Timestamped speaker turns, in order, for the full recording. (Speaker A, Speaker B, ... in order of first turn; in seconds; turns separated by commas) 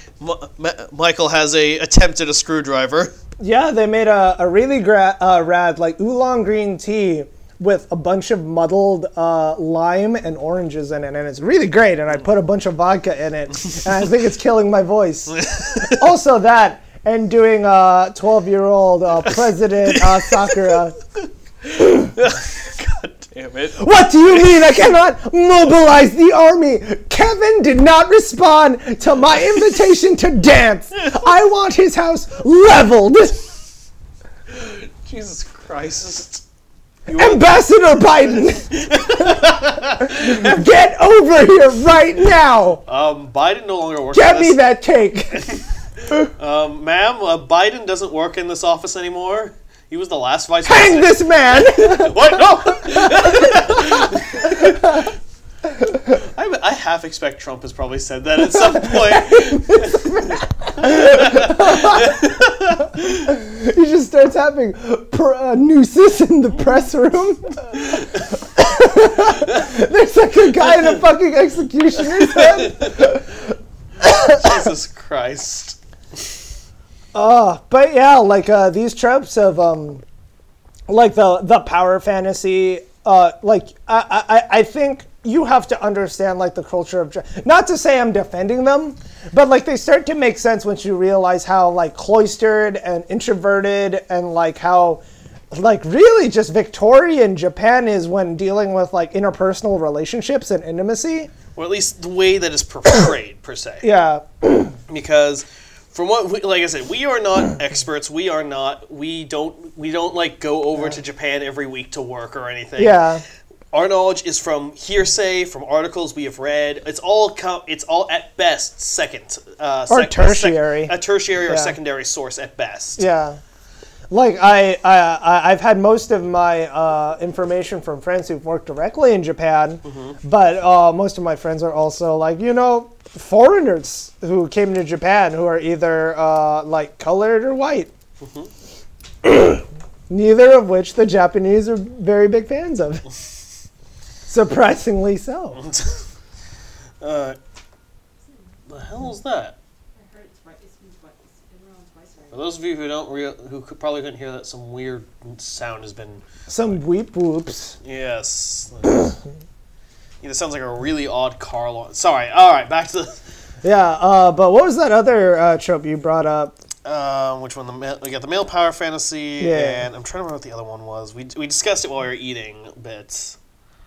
Speaker A: 0.2-3.1, Speaker B: 3.4-20.9, Speaker A: 15.3-16.0, Speaker A: 19.9-20.7, Speaker A: 21.7-24.7, Speaker B: 21.8-22.1, Speaker B: 23.8-33.5, Speaker A: 34.5-36.4, Speaker A: 37.1-37.6, Speaker B: 37.1-42.8, Speaker A: 38.3-40.6, Speaker A: 42.9-44.6, Speaker B: 44.1-45.5, Speaker A: 46.2-55.1, Speaker B: 50.6-55.1, Speaker A: 56.1-63.3, Speaker B: 59.1-62.3, Speaker B: 63.2-73.5, Speaker A: 70.6-70.9, Speaker A: 72.0-73.2, Speaker B: 74.0-74.5, Speaker A: 74.0-75.8, Speaker B: 77.1-80.0, Speaker B: 80.9-101.3, Speaker A: 101.5-103.8, Speaker B: 103.8-104.8, Speaker A: 104.9-113.0, Speaker B: 112.8-113.2, Speaker A: 113.7-123.0, Speaker B: 119.9-120.9, Speaker B: 121.4-121.7, Speaker B: 123.0-123.4, Speaker B: 124.1-137.9, Speaker A: 129.8-130.2, Speaker A: 138.2-138.5, Speaker B: 139.2-143.0, Speaker B: 144.3-145.6, Speaker A: 145.6-146.0, Speaker A: 147.0-147.4, Speaker C: 148.2-148.6, Speaker A: 148.7-149.6, Speaker C: 149.9-152.6, Speaker A: 152.3-156.2, Speaker B: 156.5-157.8, Speaker A: 157.8-159.2, Speaker A: 160.2-163.2, Speaker B: 163.6-166.5, Speaker A: 166.8-173.4, Speaker B: 169.4-169.8